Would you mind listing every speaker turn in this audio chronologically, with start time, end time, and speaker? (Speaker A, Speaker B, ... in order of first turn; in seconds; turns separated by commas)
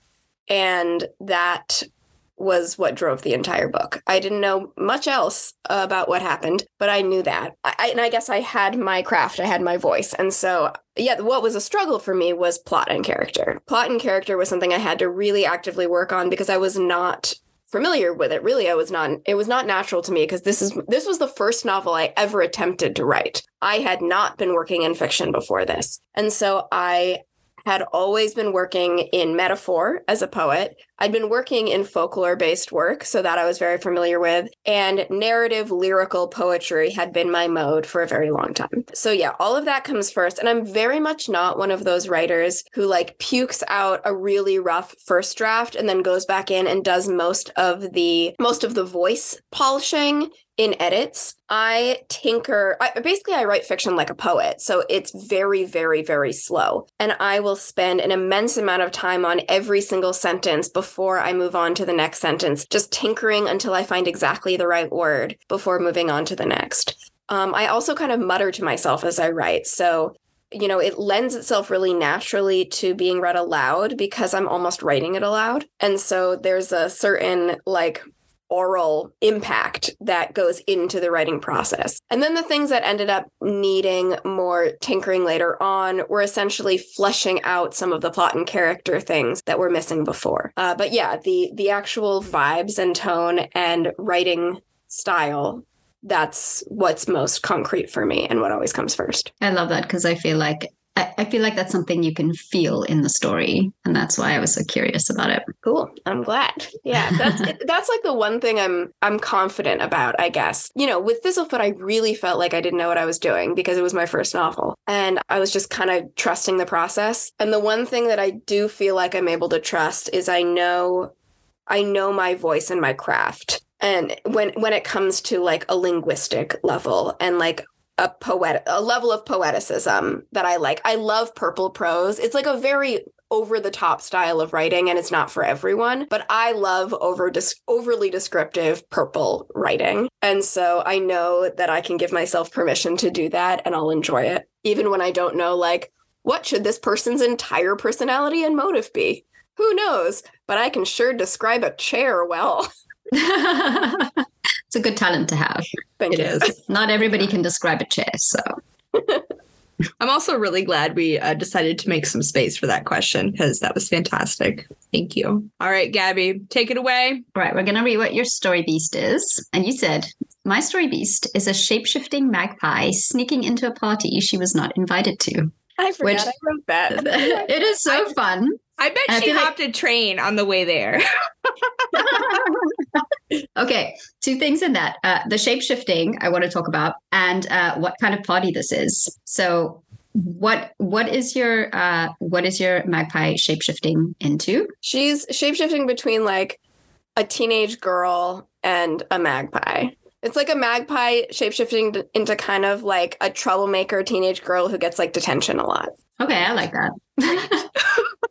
Speaker A: 0.5-99.3, Speaker B: 99.4-105.5, Speaker A: 105.6-121.1, Speaker B: 107.1-107.4, Speaker A: 121.7-152.7, Speaker B: 153.1-154.2, Speaker B: 154.7-158.4, Speaker A: 156.0-156.5, Speaker C: 156.1-156.5, Speaker A: 158.9-159.2, Speaker C: 160.0-167.2, Speaker B: 167.3-176.3, Speaker A: 175.8-178.2, Speaker B: 176.9-179.5, Speaker C: 178.8-181.0, Speaker C: 181.8-182.4, Speaker B: 181.9-183.0, Speaker B: 183.6-194.7, Speaker A: 194.8-196.6, Speaker A: 197.2-206.0, Speaker B: 206.2-207.7